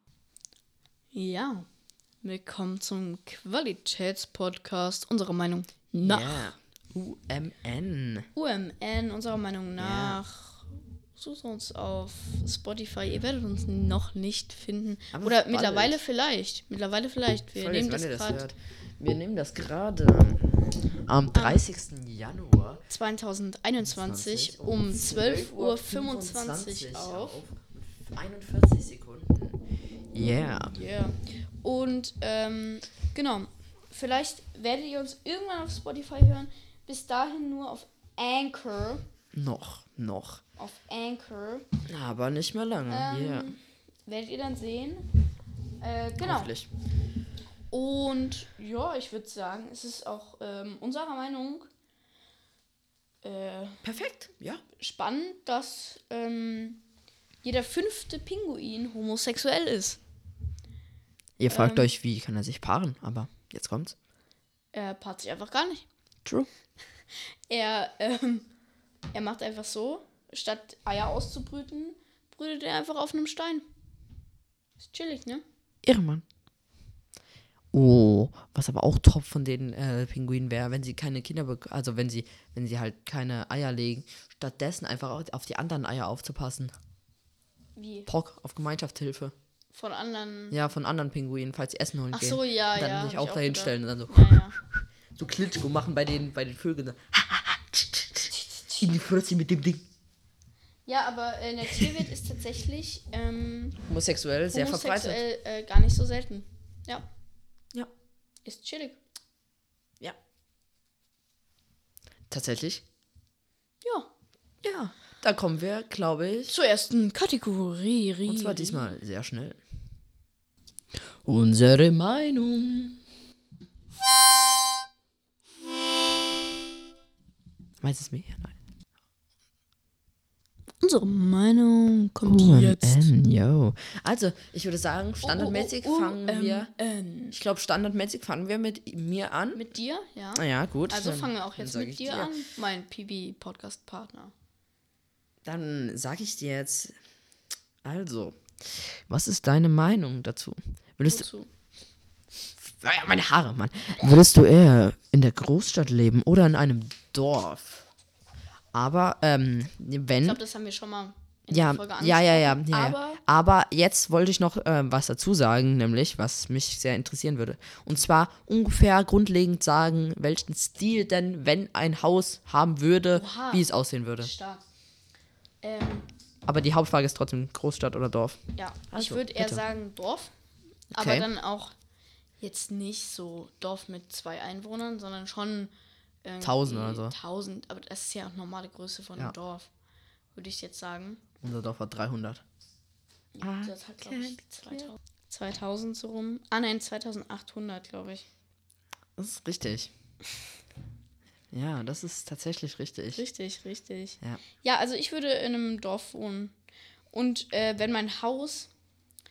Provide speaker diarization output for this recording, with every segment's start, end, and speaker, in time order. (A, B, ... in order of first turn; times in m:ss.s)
0:01.1-0:01.6 A
0:02.2-0:06.5 A
0:06.0-0:08.3 B
0:08.3-0:18.4 A
0:09.8-0:10.2 B
0:15.1-0:16.0 B
0:17.5-0:22.8 B
0:21.3-0:21.6 A
0:22.9-0:27.4 A
0:23.8-0:29.6 B
0:30.1-0:30.8 B
0:30.7-0:39.0 A
0:39.3-0:40.4 B
0:40.6-0:41.7 A
0:41.9-0:43.5 B
0:42.9-0:45.1 A
0:45.8-0:46.5 A
0:46.2-0:46.7 B
0:47.7-0:51.7 A
0:53.2-0:53.8 A
0:53.8-0:54.6 B
0:54.8-0:56.8 A
0:57.4-1:00.0 A
1:01.4-1:03.9 B
1:01.5-1:01.9 A
1:04.7-1:05.8 A
1:07.5-1:08.5 A
1:09.1-1:13.6 A
1:14.8-1:15.4 A
1:15.8-1:16.2 B
1:17.7-1:26.7 B
1:27.8-1:28.1 A
1:28.0-1:29.3 B
1:29.7-1:30.6 A
1:30.5-1:39.8 B
1:32.1-1:34.6 A
1:38.3-1:38.9 A
1:40.8-1:43.8 A
1:43.9-1:45.2 B
1:44.5-1:47.1 A
1:48.4-1:49.0 A
1:52.3-1:52.8 B
1:53.8-1:54.1 A
1:54.6-1:56.5 B
1:56.5-1:58.9 A
1:58.3-1:59.6 B
2:01.2-2:03.0 B
2:07.8-2:08.5 B
2:10.8-2:13.1 A
2:12.2-2:16.7 B
2:15.2-2:17.4 A
2:17.3-2:19.6 B
2:19.5-2:24.3 A
2:20.4-2:22.4 B
2:25.4-2:27.0 B
2:27.8-2:31.2 B
2:31.1-2:31.5 A
2:32.6-2:37.8 B
2:38.7-2:40.4 B
2:40.2-2:43.2 A
2:41.5-2:54.3 B
2:53.1-2:53.6 A
2:54.2-2:54.6 A
2:55.6-2:56.0 A
2:56.4-2:59.6 B
2:58.6-3:00.3 A
3:00.9-3:01.3 B
3:00.9-3:01.7 A
3:02.4-3:05.7 A
3:06.2-3:09.7 A
3:06.4-3:07.1 B
3:10.3-3:11.2 A
3:11.4-3:12.4 B
3:13.3-3:18.2 A
3:13.4-3:14.9 B
3:19.2-3:19.9 B
3:21.5-3:23.2 B
3:23.1-3:26.5 A
3:27.1-3:28.7 A